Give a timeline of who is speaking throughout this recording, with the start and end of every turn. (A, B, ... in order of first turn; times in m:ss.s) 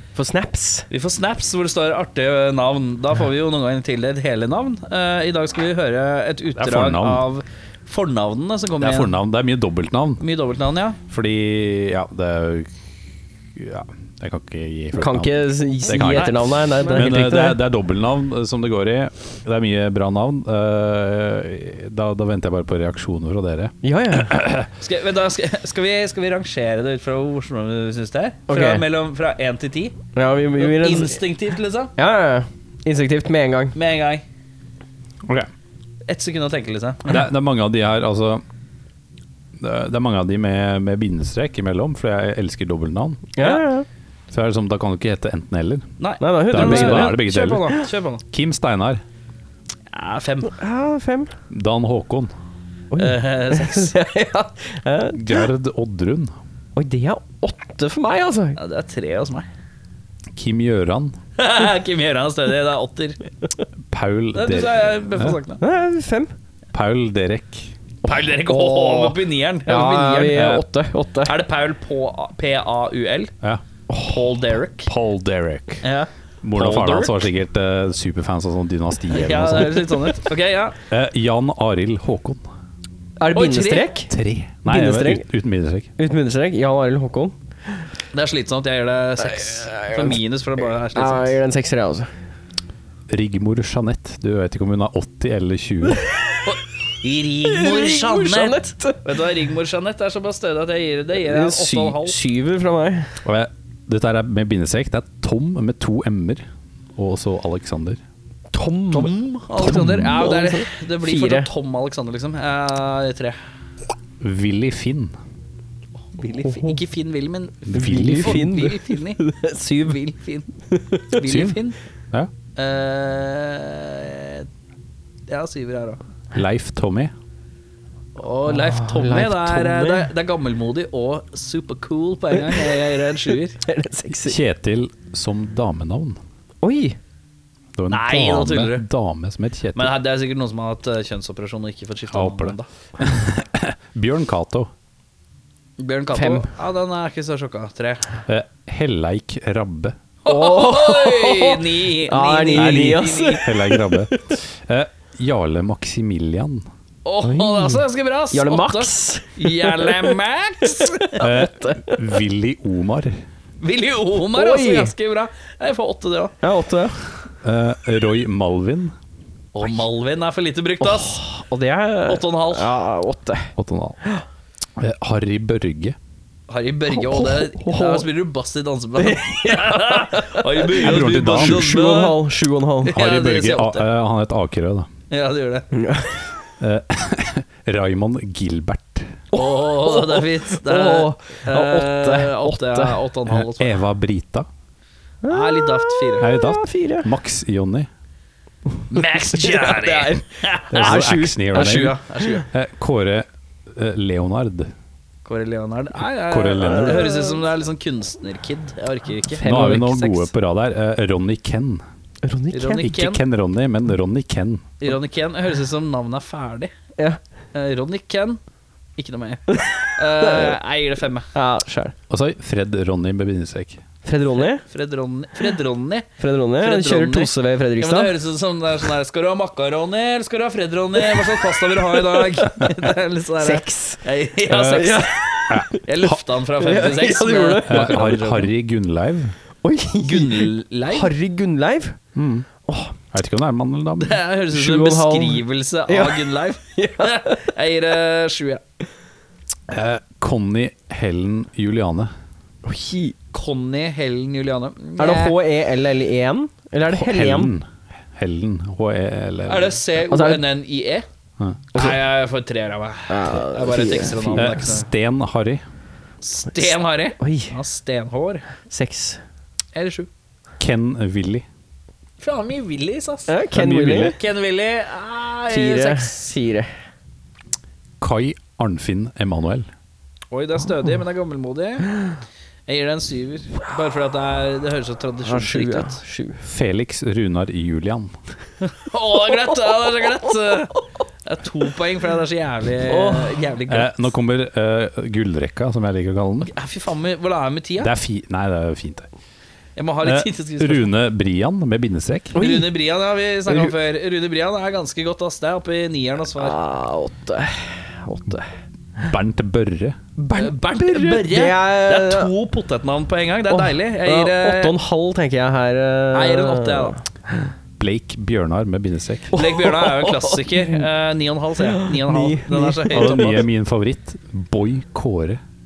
0:00.1-0:00.9 A
0:00.9-0:09.2 B
0:06.6-0:07.2 C
0:08.8-0:10.2 C
0:10.2-0:11.0 B
0:11.1-0:12.7 C
0:13.5-0:24.7 C
0:15.0-0:17.6 A
0:16.0-0:17.1 B
0:23.8-0:24.4 A
0:24.8-0:30.0 B
0:28.5-0:28.8 A
0:30.1-0:31.2 A
0:30.6-0:31.9 B
0:32.0-0:33.7 A
0:33.7-0:34.2 B
0:36.1-0:37.2 B
0:37.0-0:38.4 C
0:39.6-0:43.3 C
0:43.4-0:43.9 A
0:44.3-0:45.8 C
0:46.0-0:48.2 B
0:46.2-0:47.8 A
0:46.5-0:47.8 C
0:48.3-0:49.0 C
0:49.9-0:50.5 B
0:50.4-0:51.3 A
0:51.5-0:52.3 C
0:52.9-0:55.4 A
0:53.0-0:54.0 B
0:55.1-0:56.3 C
0:56.8-0:58.6 A
0:58.6-0:59.5 B
1:00.3-1:01.2 C
1:01.4-1:03.2 B
1:03.9-1:05.4 C
1:04.3-1:05.6 B
1:05.6-1:06.3 A
1:06.7-1:07.7 C
1:08.0-1:11.3 A
1:08.0-1:10.6 B
1:11.2-1:13.3 B
1:13.9-1:14.2 A
1:14.0-1:14.9 B
1:14.8-1:15.8 C
1:15.8-1:17.0 B
1:16.4-1:20.0 C
1:16.6-1:17.0 A
1:19.1-1:20.8 B
1:20.9-1:22.4 C
1:23.2-1:24.1 A
1:23.3-1:23.9 B
1:24.1-1:25.9 C
1:24.6-1:25.2 A
1:26.0-1:27.3 A
1:28.1-1:31.4 B
1:29.2-1:30.2 A
1:30.8-1:32.1 A
1:33.1-1:36.0 C
1:36.4-1:42.2 B
1:37.4-1:39.0 A
1:41.2-1:43.1 A
1:43.2-1:48.0 C
1:48.5-1:51.5 A
1:48.9-1:53.4 B
1:49.6-1:50.2 C
1:54.2-1:55.2 C
1:56.1-1:59.2 B
1:56.4-1:56.8 A
1:57.7-1:58.6 C
1:57.7-2:00.0 A
1:59.8-2:00.4 B
2:00.7-2:01.2 A
2:01.1-2:01.8 B
2:01.2-2:01.6 C
2:02.6-2:04.5 B
2:05.3-2:06.0 B
2:06.3-2:07.1 C
2:08.2-2:13.6 B
2:08.5-2:10.1 A
2:12.3-2:12.7 A
2:13.6-2:14.4 A
2:14.1-2:16.2 C
2:16.6-2:17.0 A
2:17.7-2:19.9 C
2:17.9-2:18.8 B
2:19.7-2:22.7 B
2:22.1-2:24.7 C
2:25.8-2:28.1 B
2:26.1-2:26.5 A
2:28.3-2:30.0 C
2:30.2-2:33.4 B
2:30.2-2:34.2 A
2:32.5-2:36.7 C
2:37.0-2:41.2 B
2:37.2-2:40.1 A
2:40.7-2:42.0 A
2:41.2-2:43.2 C
2:43.6-2:46.3 B
2:44.3-2:44.9 A
2:46.4-2:47.0 A
2:47.4-2:49.0 C
2:49.5-2:51.2 B
2:50.8-2:54.2 A
2:52.1-2:52.7 B
2:53.6-2:54.0 C
2:54.8-2:56.0 C
2:56.5-3:02.2 B
2:56.9-2:58.1 A
2:59.0-3:03.0 A
3:00.8-3:01.7 C
3:02.8-3:03.9 B
3:02.9-3:04.9 C
3:05.1-3:05.7 B
3:05.7-3:06.1 A
3:06.6-3:09.1 C
3:09.3-3:13.0 A
3:09.3-3:13.7 B
3:13.3-3:14.5 C
3:15.2-3:17.1 A
3:15.3-3:16.3 B
3:16.2-3:17.9 C
3:18.9-3:22.5 B
3:19.4-3:22.4 A
3:20.7-3:22.0 C
3:22.5-3:24.7 C
3:25.2-3:30.3 B
3:26.3-3:27.1 C
3:26.7-3:27.4 A
3:29.3-3:29.9 A
3:29.4-3:31.8 C
3:32.2-3:32.8 A
3:32.5-3:33.2 B
3:32.8-3:34.7 C
3:34.8-3:36.7 B
3:37.5-3:38.4 B
3:39.0-3:41.3 B
3:39.5-3:40.6 A
3:41.3-3:41.9 A
3:42.1-3:43.8 C
3:44.0-3:44.6 A
3:44.4-3:46.1 B
3:46.2-3:48.1 A
3:46.6-3:55.2 B
3:52.1-3:52.4 A
3:53.4-3:55.8 A
3:55.5-3:56.2 C
3:55.8-3:58.5 B
3:56.6-3:58.1 A
3:57.6-3:59.3 C
3:59.6-4:02.0 A
4:00.0-4:01.1 B
4:02.1-4:02.4 C
4:02.7-4:02.9 A
4:03.1-4:04.2 C
4:04.0-4:08.6 B
4:04.5-4:07.4 A
4:09.7-4:12.1 C
4:12.6-4:13.1 A
4:13.3-4:15.4 B
4:15.0-4:17.5 A
4:16.9-4:19.8 C
4:19.5-4:21.0 B
4:20.1-4:20.4 A
4:21.7-4:24.9 B
4:23.1-4:24.5 A
4:24.4-4:25.6 C
4:26.2-4:28.4 B
4:26.5-4:27.5 A
4:28.7-4:29.2 A
4:29.7-4:30.1 B
4:30.6-4:31.4 C
4:32.2-4:33.3 B
4:33.3-4:34.2 A
4:33.5-4:34.2 C
4:33.9-4:36.3 B
4:35.5-4:36.7 A
4:38.0-4:39.7 C
4:40.3-4:42.0 B
4:42.7-4:46.0 B
4:45.2-4:46.4 A
4:46.4-4:48.2 C
4:48.8-4:54.0 B
4:52.9-4:53.5 A
4:53.7-4:56.5 C
4:56.4-4:57.9 B
4:57.8-4:59.1 C
4:59.8-5:00.9 B
5:00.0-5:02.4 C
5:02.3-5:02.7 A
5:02.3-5:06.6 B
5:03.5-5:03.7 A
5:06.4-5:08.5 A
5:09.0-5:10.0 C
5:10.2-5:12.3 A
5:10.3-5:14.7 B
5:13.5-5:17.0 A
5:16.1-5:17.0 B
5:17.8-5:19.3 C
5:19.3-5:20.8 A
5:19.3-5:23.4 B
5:21.6-5:23.3 A
5:22.9-5:25.4 C